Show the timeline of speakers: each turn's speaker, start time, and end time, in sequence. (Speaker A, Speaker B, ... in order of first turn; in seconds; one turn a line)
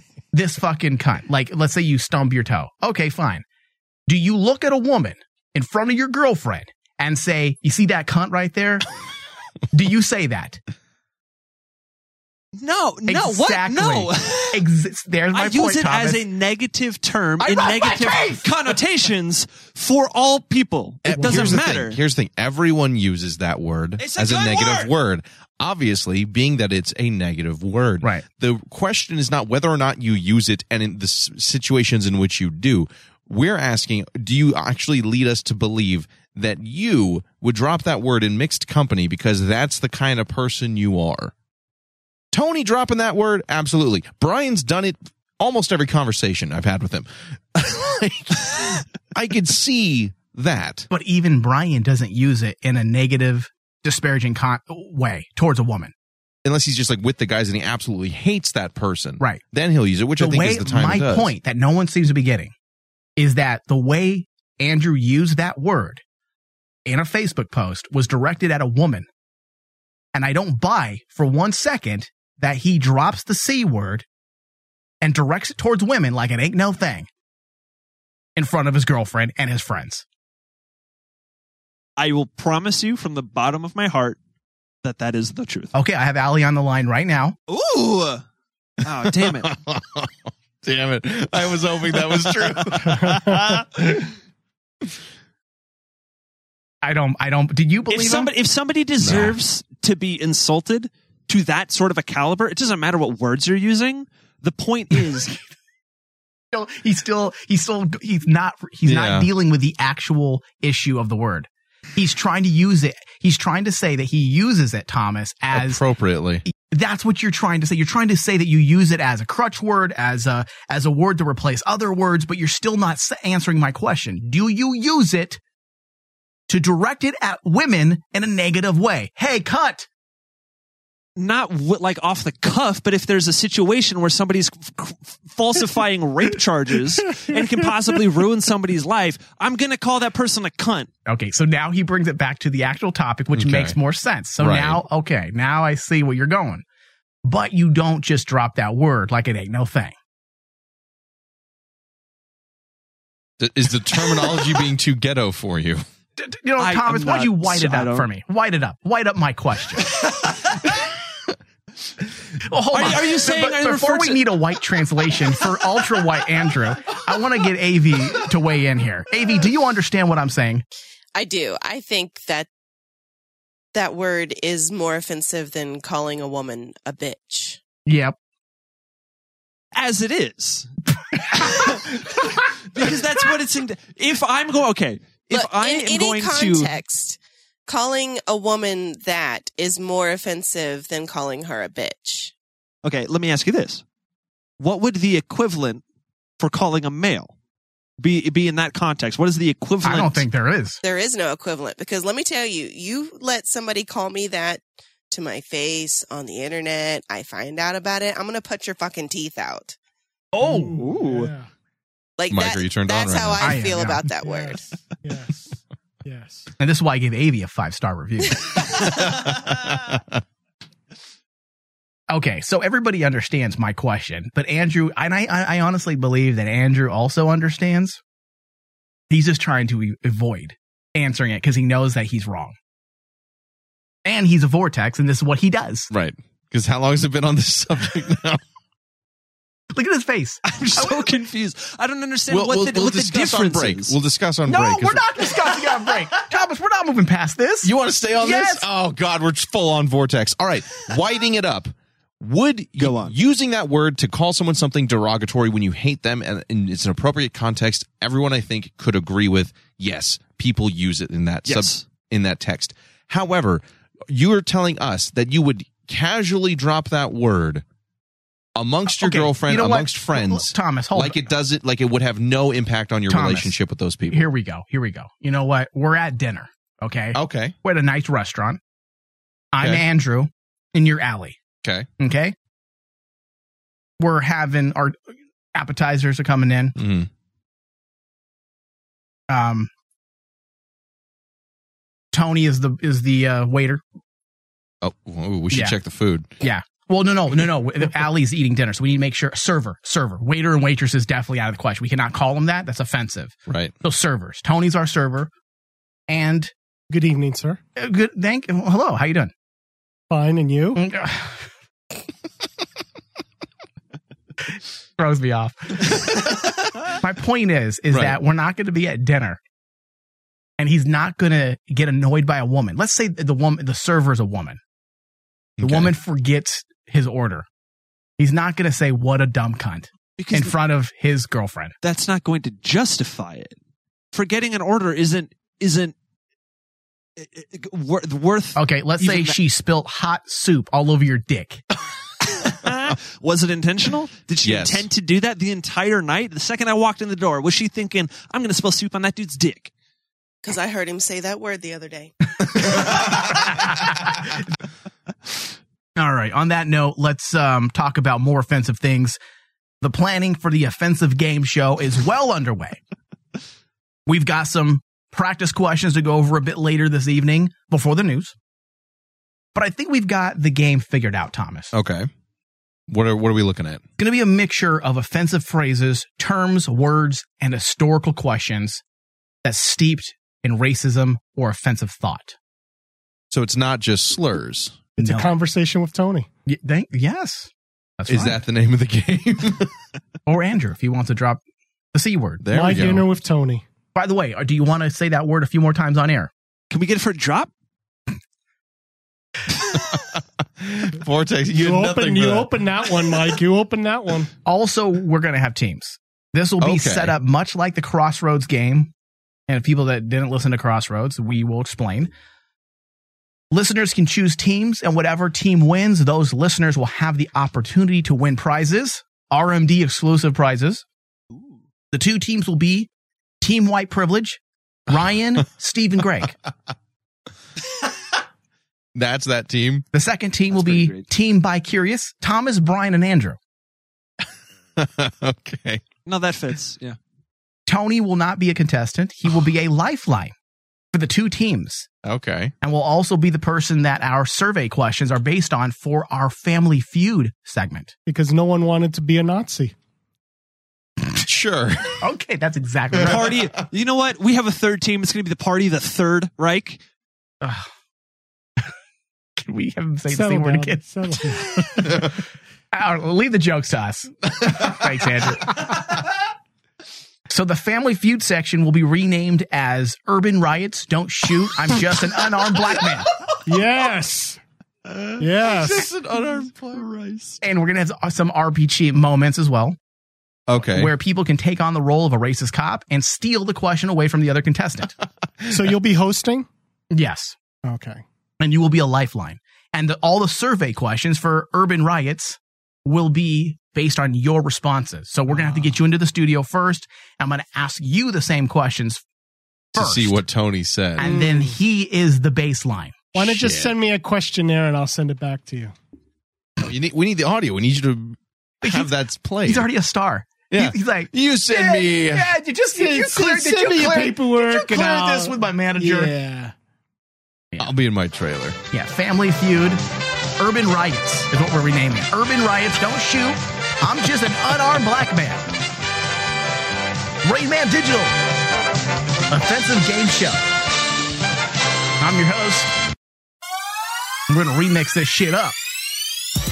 Speaker A: 0.3-3.4
Speaker A: 4.1-8.8
Speaker A: 9.7-10.6
Speaker B: 12.6-14.7
Speaker A: 13.1-16.2
Speaker B: 15.3-22.0
Speaker A: 17.4-18.5
Speaker C: 21.0-41.3
Speaker A: 21.1-21.6
Speaker B: 24.0-24.9
Speaker C: 42.3-50.9
Speaker A: 50.9-55.9
Speaker C: 56.4-61.3
Speaker A: 60.2-62.5
Speaker A: 63.2-66.0
Speaker A: 66.8-69.1
Speaker A: 70.1-74.0
Speaker A: 75.0-77.1
Speaker A: 78.3-80.0
Speaker B: 82.0-84.2
Speaker B: 84.8-85.7
Speaker A: 85.7-87.3
Speaker B: 87.5-88.2
Speaker B: 88.8-89.5
Speaker C: 89.0-94.0
Speaker A: 96.8-98.3
Speaker B: 97.9-105.3
Speaker C: 99.0-99.3
Speaker A: 106.5-115.8
Speaker C: 108.8-109.3
Speaker C: 115.5-116.4
Speaker A: 116.5-125.4
Speaker A: 126.5-129.9
Speaker B: 131.2-140.9
Speaker A: 141.1-146.6
Speaker C: 143.3-143.8
Speaker C: 144.4-144.8
Speaker A: 147.2-149.9
Speaker C: 153.4-155.8
Speaker A: 156.2-159.9
Speaker B: 156.6-158.1
Speaker A: 162.4-170.6
Speaker B: 162.7-164.3
Speaker D: 171.1-172.5
Speaker D: 173.7-177.6
Speaker A: 177.8-178.2
Speaker B: 179.7-180.7
Speaker B: 181.3-182.0
Speaker B: 182.7-186.7
Speaker D: 185.3-192.3
Speaker B: 192.8-193.8
Speaker B: 194.6-195.8
Speaker B: 196.4-197.3
Speaker B: 198.0-200.2
Speaker A: 199.8-200.8
Speaker D: 200.8-209.8
Speaker A: 210.3-210.8
Speaker E: 210.4-211.5
Speaker B: 210.8-211.3
Speaker D: 212.2-214.6
Speaker C: 212.3-213.6
Speaker A: 213.4-214.0
Speaker E: 214.2-216.5
Speaker A: 216.6-218.6
Speaker C: 219.3-220.0
Speaker A: 222.1-228.0
Speaker A: 229.1-232.5
Speaker A: 234.0-235.9
Speaker C: 235.9-238.4
Speaker A: 239.7-241.1
Speaker B: 240.4-243.9
Speaker C: 242.3-245.3
Speaker A: 244.5-248.7
Speaker C: 247.6-267.6
Speaker B: 252.8-253.1
Speaker B: 261.4-261.8
Speaker C: 268.6-274.3
Speaker A: 268.9-271.3
Speaker A: 273.1-273.6
Speaker A: 274.1-278.6
Speaker C: 277.1-277.5
Speaker A: 279.5-281.4
Speaker C: 281.6-281.9
Speaker A: 282.0-282.3
Speaker A: 284.0-286.8
Speaker C: 286.8-287.1
Speaker A: 289.3-289.7
Speaker A: 292.1-293.8
Speaker C: 294.8-296.3
Speaker A: 295.5-295.8
Speaker A: 296.4-305.3
Speaker C: 303.5-303.7
Speaker A: 306.1-306.5
Speaker E: 306.9-307.6
Speaker A: 307.8-309.3
Speaker E: 310.1-310.8
Speaker A: 310.8-311.4
Speaker A: 315.0-316.2
Speaker A: 316.9-319.4
Speaker C: 317.9-318.2
Speaker A: 320.6-324.6
Speaker C: 325.6-325.9
Speaker A: 325.6-327.4
Speaker A: 328.2-331.7
Speaker B: 330.2-330.5
Speaker B: 331.8-333.6
Speaker B: 334.1-335.9
Speaker B: 337.2-339.4
Speaker A: 338.6-341.6
Speaker B: 342.4-349.7
Speaker C: 344.4-344.9
Speaker D: 350.4-352.1
Speaker A: 353.5-354.2
Speaker A: 356.0-359.2
Speaker A: 359.8-362.8
Speaker A: 364.1-368.3
Speaker A: 369.5-371.7
Speaker C: 371.7-372.1
Speaker C: 372.9-373.8
Speaker A: 374.0-378.8
Speaker A: 379.4-382.4
Speaker C: 383.3-384.8
Speaker E: 384.9-386.3
Speaker A: 385.0-385.3
Speaker A: 386.4-388.4
Speaker C: 388.1-389.7
Speaker A: 390.2-391.4
Speaker A: 391.9-392.4
Speaker C: 392.4-393.1
Speaker E: 392.5-393.6
Speaker A: 393.9-396.3
Speaker B: 396.7-397.5
Speaker C: 399.9-402.5
Speaker E: 401.5-404.3
Speaker A: 404.4-408.9
Speaker C: 406.6-407.1
Speaker A: 409.5-412.1
Speaker A: 413.5-420.8
Speaker A: 421.9-422.9
Speaker A: 423.4-426.4
Speaker C: 428.9-429.9
Speaker A: 429.9-433.4
Speaker B: 430.5-431.0
Speaker C: 434.8-435.8
Speaker B: 436.1-436.9
Speaker A: 437.7-440.3
Speaker A: 440.9-441.9
Speaker C: 442.0-442.5
Speaker A: 442.6-447.9
Speaker E: 448.1-449.7
Speaker C: 451.2-452.0
Speaker A: 452.0-453.3
Speaker B: 453.0-456.8
Speaker A: 457.4-457.7
Speaker A: 459.4-460.8
Speaker E: 460.1-462.0
Speaker A: 461.7-462.1
Speaker A: 462.7-465.6
Speaker A: 467.3-473.1
Speaker E: 473.5-474.4
Speaker C: 474.9-477.4
Speaker E: 475.2-475.9
Speaker A: 477.4-479.8
Speaker C: 480.5-480.9
Speaker A: 480.6-484.9
Speaker E: 485.5-486.5
Speaker A: 486.9-487.4
Speaker E: 487.6-488.0
Speaker A: 488.4-499.0
Speaker E: 495.3-495.6
Speaker A: 499.7-500.2
Speaker C: 499.7-501.1
Speaker A: 501.0-503.0
Speaker E: 501.0-501.5
Speaker E: 503.1-505.7
Speaker C: 503.2-503.7
Speaker C: 506.6-509.7
Speaker A: 508.6-508.9
Speaker A: 509.4-516.1
Speaker C: 510.5-512.3
Speaker E: 512.7-516.5
Speaker C: 517.6-518.6
Speaker A: 518.7-519.8
Speaker A: 520.4-525.5
Speaker A: 527.2-528.1
Speaker A: 529.3-530.5
Speaker A: 532.0-532.7
Speaker A: 534.3-535.5